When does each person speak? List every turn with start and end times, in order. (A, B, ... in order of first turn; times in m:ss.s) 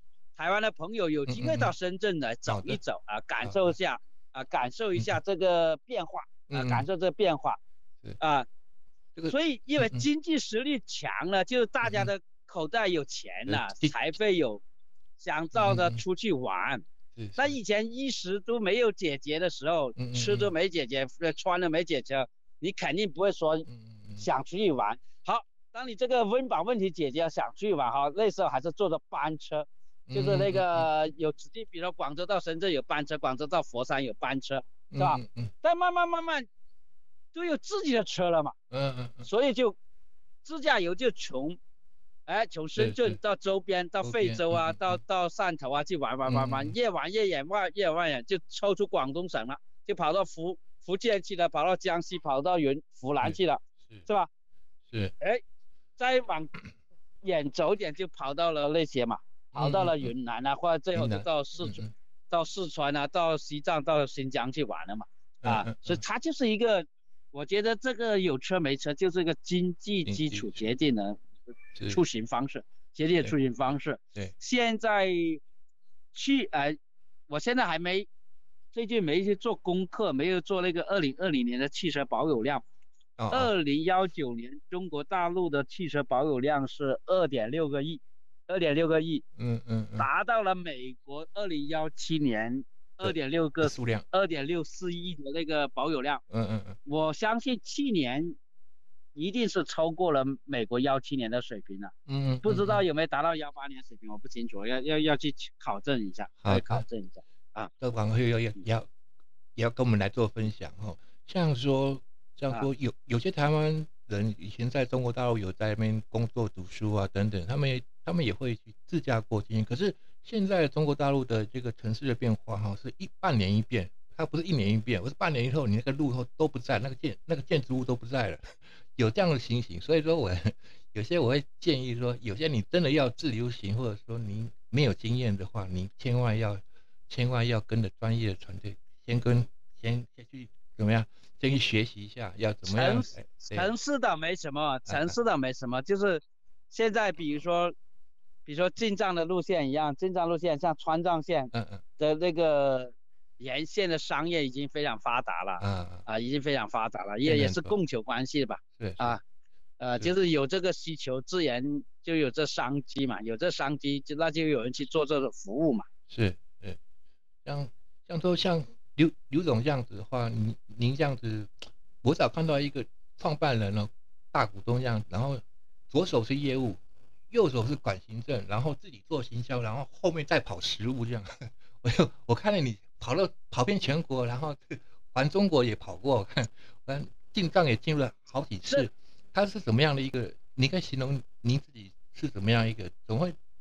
0:00.4-0:07.6 A
0:01.3-0:01.7 B
0:02.5-0:02.8 B
0:06.5-0:06.8 B
0:08.2-0:08.5 A
0:09.2-0:10.0 B
0:09.3-0:14.6 A
0:11.8-0:12.1 B
0:13.5-0:13.9 B
0:15.2-0:16.8 A
0:15.5-0:16.0 B
0:17.2-0:17.6 B
0:17.4-0:36.5 A
0:20.0-0:20.5 B
0:23.7-0:24.2 B
0:30.1-0:30.9 B
0:34.9-0:35.5 B
0:37.3-0:38.5 A
0:38.7-0:39.3 B
0:39.2-0:39.8 A
0:40.4-0:41.6 A
0:42.3-0:54.3 A
0:42.8-0:43.2 B
0:44.0-0:45.0 B
0:46.2-0:46.7 B
0:53.2-0:54.0 B
0:54.9-0:55.1 B
0:56.0-0:56.6 A
0:57.2-1:11.2 A
0:59.5-1:00.1 B
1:00.9-1:01.9 B
1:05.4-1:06.0 B
1:10.0-1:10.7 B
1:11.8-1:12.0 B
1:11.9-1:15.4 A
1:16.1-1:16.8 A
1:17.3-1:18.1 A
1:18.7-1:22.6 A
1:23.2-1:23.5 B
1:23.3-1:29.2 A
1:29.4-1:30.1 B
1:30.0-1:36.2 A
1:33.0-1:34.0 B
1:36.3-1:36.8 B
1:36.8-1:38.4 A
1:39.2-1:47.7 A
1:42.1-1:42.8 B
1:46.4-1:46.8 B
1:47.8-1:48.9 B
1:49.6-2:23.7 B
2:22.7-2:27.7 A
2:24.9-2:25.1 B
2:28.4-2:39.2 A
2:31.5-2:31.8 B
2:35.6-2:36.0 B
2:37.2-2:37.7 B
2:38.8-2:39.2 B
2:39.8-2:45.9 A
2:46.1-2:46.8 B
2:47.4-2:56.8 B
2:57.3-3:13.3 B